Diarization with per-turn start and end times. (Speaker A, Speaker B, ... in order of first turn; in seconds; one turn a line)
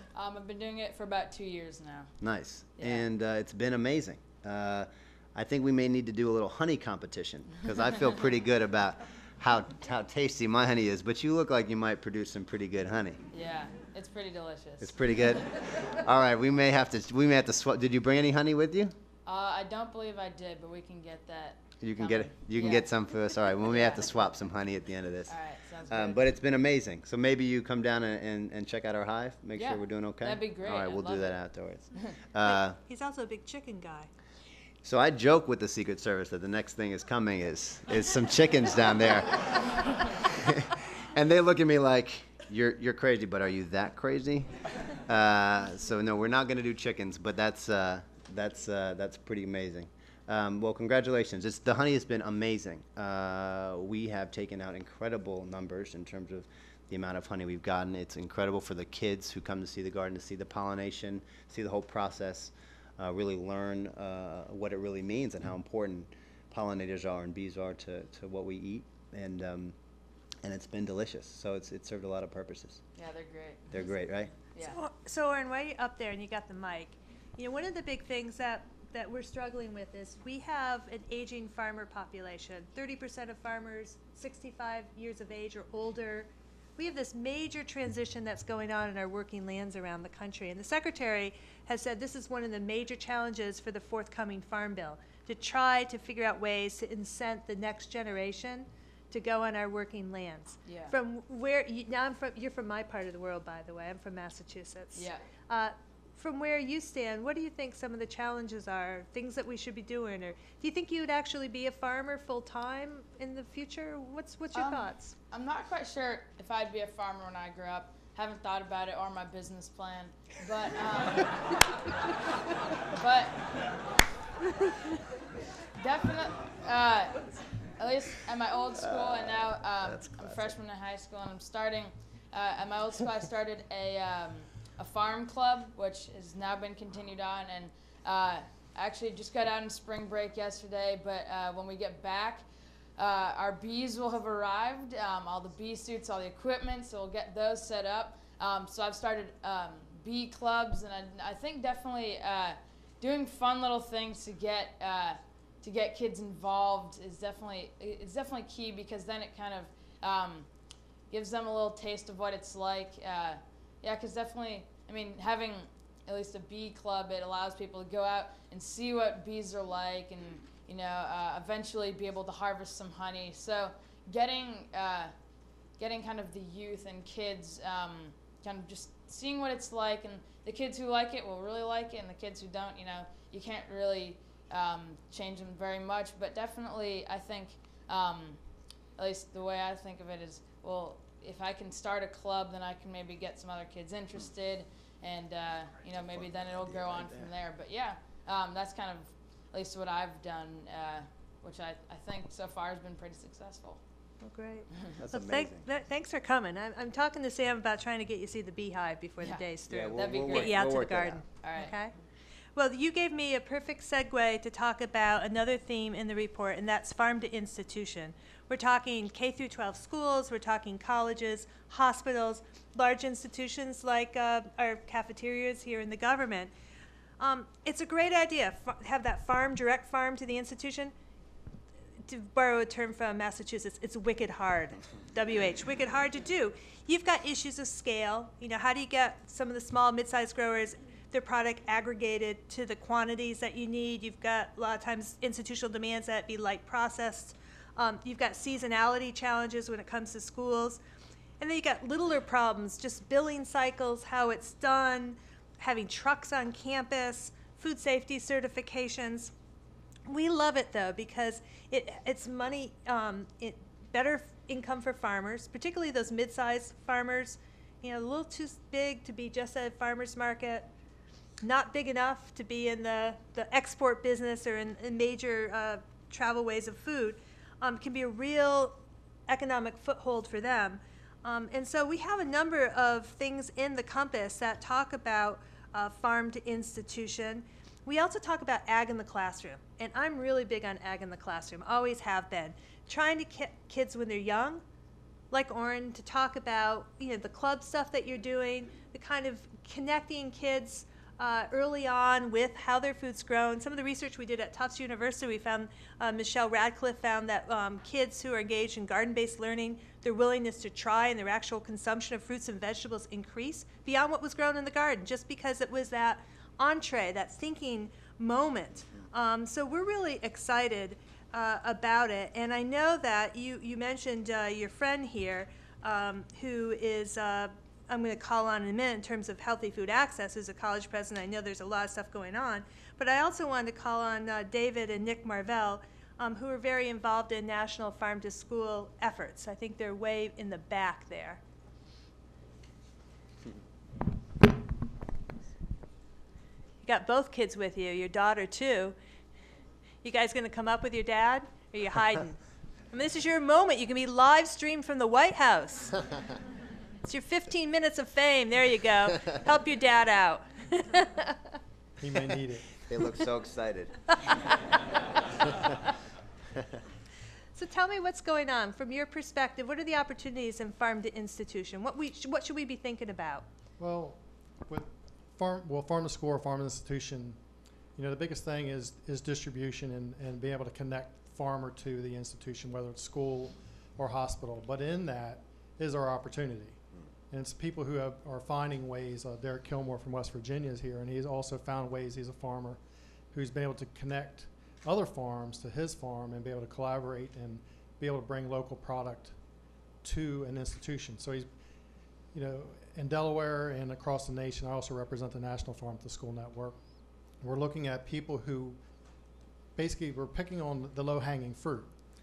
Speaker A: 0.1-2.1
Speaker B: 2.2-13.2
Speaker A: 2.8-3.1
Speaker A: 13.3-15.4
Speaker B: 14.8-18.9
Speaker A: 19.2-24.3
Speaker B: 21.8-32.8
Speaker A: 25.3-26.3
Speaker A: 29.6-31.4
Speaker C: 32.4-34.1
Speaker B: 34.8-44.5
Speaker B: 45.0-69.8
Speaker B: 70.4-72.8
Speaker A: 73.0-74.8
Speaker B: 73.7-74.4
Speaker C: 74.6-115.1
Speaker A: 100.7-100.9
Speaker A: 104.9-105.2
Speaker A: 114.5-121.5
Speaker A: 122.9-123.5
Speaker A: 125.8-127.2
Speaker A: 127.8-142.5
Speaker B: 128.7-130.6
Speaker A: 143.0-160.5
Speaker A: 161.1-175.1
Speaker A: 175.8-188.4
Speaker A: 188.9-203.8
Speaker B: 195.9-197.3
Speaker C: 204.2-211.9
Speaker B: 205.0-205.7
Speaker A: 209.2-210.8
Speaker B: 209.7-211.2
Speaker A: 211.4-211.9
Speaker C: 212.6-226.5
Speaker C: 227.2-230.9
Speaker C: 232.1-250.8
Speaker C: 251.4-259.3
Speaker C: 260.1-270.7
Speaker C: 271.4-294.6
Speaker C: 295.3-341.4
Speaker C: 346.8-349.0
Speaker C: 350.0-352.4
Speaker C: 352.9-356.0
Speaker C: 357.0-361.4
Speaker D: 362.0-362.7
Speaker B: 362.8-363.9
Speaker C: 364.2-364.5
Speaker C: 367.6-373.5
Speaker D: 373.8-377.4
Speaker D: 378.0-392.8
Speaker D: 393.3-399.4
Speaker D: 400.0-401.5
Speaker D: 402.3-406.8
Speaker D: 407.4-408.8
Speaker D: 409.8-411.9